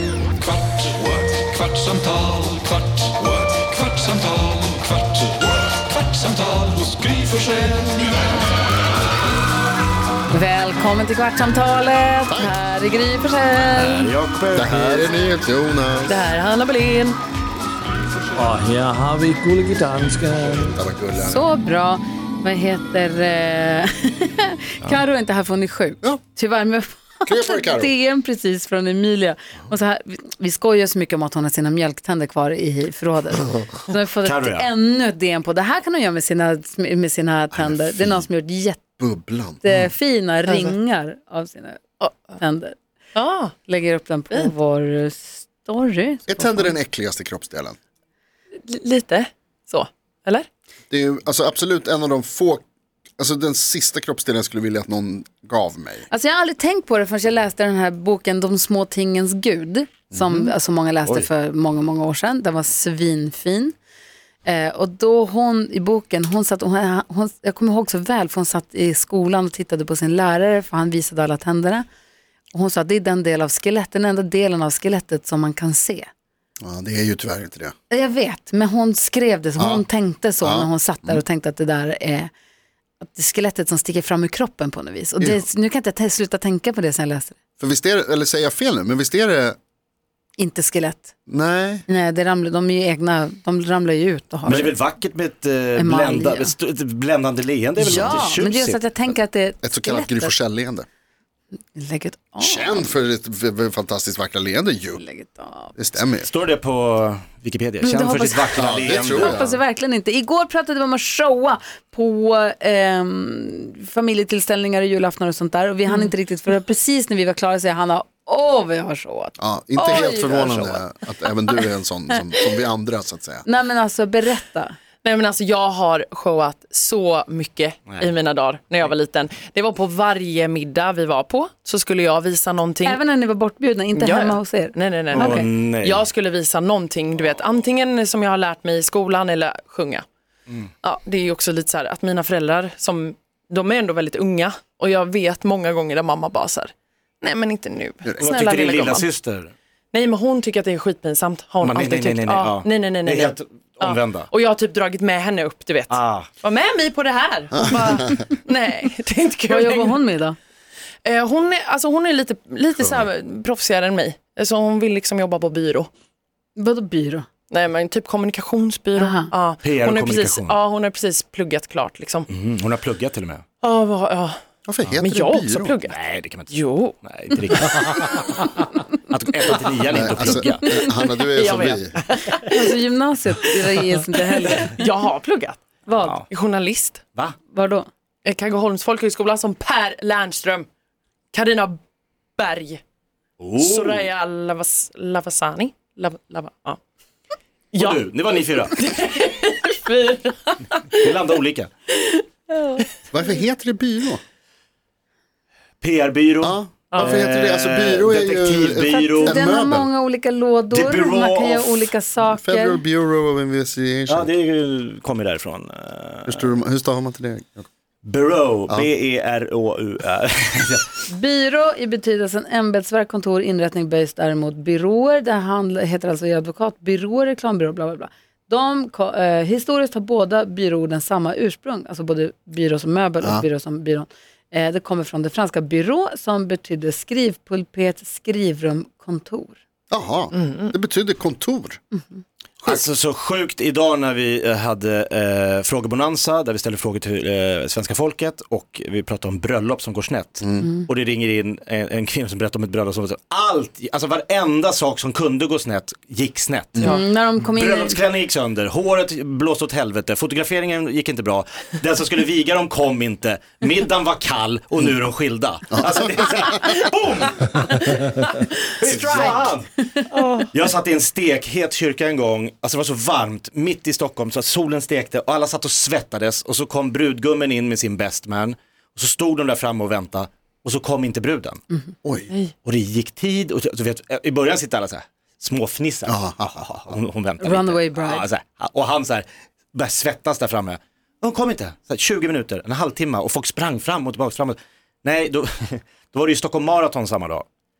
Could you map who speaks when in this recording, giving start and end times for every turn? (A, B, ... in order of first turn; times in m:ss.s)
0:00.8-0:05.3 A
0:05.8-0:08.0 A
0:10.3-0:14.1 B
0:12.3-0:12.5 C
0:13.7-0:14.7 D
0:14.5-0:16.2 C
0:14.7-0:15.0 E
0:16.1-0:17.2 F
0:18.4-0:20.7 E
0:20.7-0:21.5 C
0:21.2-0:38.9 B
0:27.3-0:27.9 C
0:34.2-0:34.7 D
0:37.5-0:38.3 C
0:39.0-0:39.8 C
0:39.6-0:42.8 B
0:40.5-0:40.8 F
0:43.2-0:43.6 F
0:43.6-0:46.8 B
0:46.3-0:47.8 C
0:48.6-0:50.5 F
0:50.9-0:52.6 C
0:53.2-0:56.1 C
0:56.1-1:03.8 B
1:00.1-1:00.5 C
1:04.4-1:11.8 B
1:12.5-1:16.1 B
1:16.6-1:17.7 C
1:17.9-1:22.3 B
1:19.6-1:19.9 C
1:20.4-1:21.2 C
1:23.0-1:27.4 B
1:25.2-1:25.4 C
1:27.6-1:29.6 C
1:30.4-1:31.1 B
1:31.3-1:31.9 C
1:31.9-1:34.8 B
1:34.4-1:38.9 D
1:35.8-1:36.5 B
1:37.8-1:40.3 B
1:37.8-1:38.3 C
1:39.6-1:40.9 C
1:41.7-1:42.9 B
1:42.4-1:45.0 C
1:45.0-1:45.7 B
1:45.8-1:46.3 C
1:46.2-1:49.5 D
1:47.8-2:00.8 B
1:48.6-1:49.6 C
1:59.4-2:03.5 C
2:03.4-2:04.8 B
2:05.0-2:13.0 F
2:12.8-2:15.4 B
2:14.0-2:20.0 F
2:15.1-2:16.1 D
2:20.8-2:29.1 F
2:28.2-2:29.5 D
2:29.9-2:40.0 F
2:31.6-2:34.3 D
2:35.9-2:36.3 D
2:39.5-2:40.4 B
2:41.0-2:45.9 F
2:46.6-2:47.3 B
2:47.5-2:52.3 F
2:49.0-2:49.3 B
2:49.6-2:50.6 D
2:52.3-2:53.4 D
2:53.6-2:54.4 F
2:54.7-2:55.7 C
2:55.0-2:56.0 F
2:55.9-3:00.7 D
2:56.5-2:57.6 F
2:59.9-3:02.0 C
3:00.4-3:02.8 F
3:02.5-3:04.8 B
3:04.4-3:07.0 F
3:05.9-3:06.2 B
3:07.5-3:07.9 B
3:08.2-3:10.7 F
3:11.3-3:11.8 F
3:12.4-3:12.8 F
3:13.4-3:14.1 D
3:13.6-3:16.8 F
3:17.7-3:21.3 F
3:17.8-3:18.8 D
3:21.0-3:21.7 D
3:21.9-3:23.0 F
3:23.1-3:24.2 C
3:25.8-3:29.4 D
3:26.4-3:29.9 C
3:26.9-3:27.2 F
3:28.9-3:32.8 B
3:30.7-3:31.9 D
3:32.2-3:34.3 C
3:34.1-3:36.4 D
3:36.3-3:37.7 C
3:38.0-3:40.9 D
3:41.1-3:59.6 B
3:59.9-4:01.8 C
4:00.3-4:00.7 F
4:02.6-4:17.0 D
4:10.4-4:10.7 C
4:10.6-4:10.9 B
4:16.8-4:18.0 B
4:17.6-4:28.0 D
4:25.7-4:26.5 C
4:28.8-4:29.8 D
4:30.1-4:30.5 F
4:30.5-4:41.6 D
4:42.0-4:42.3 C
4:42.6-4:57.5 D
4:46.1-4:47.0 C
4:47.4-4:48.3 B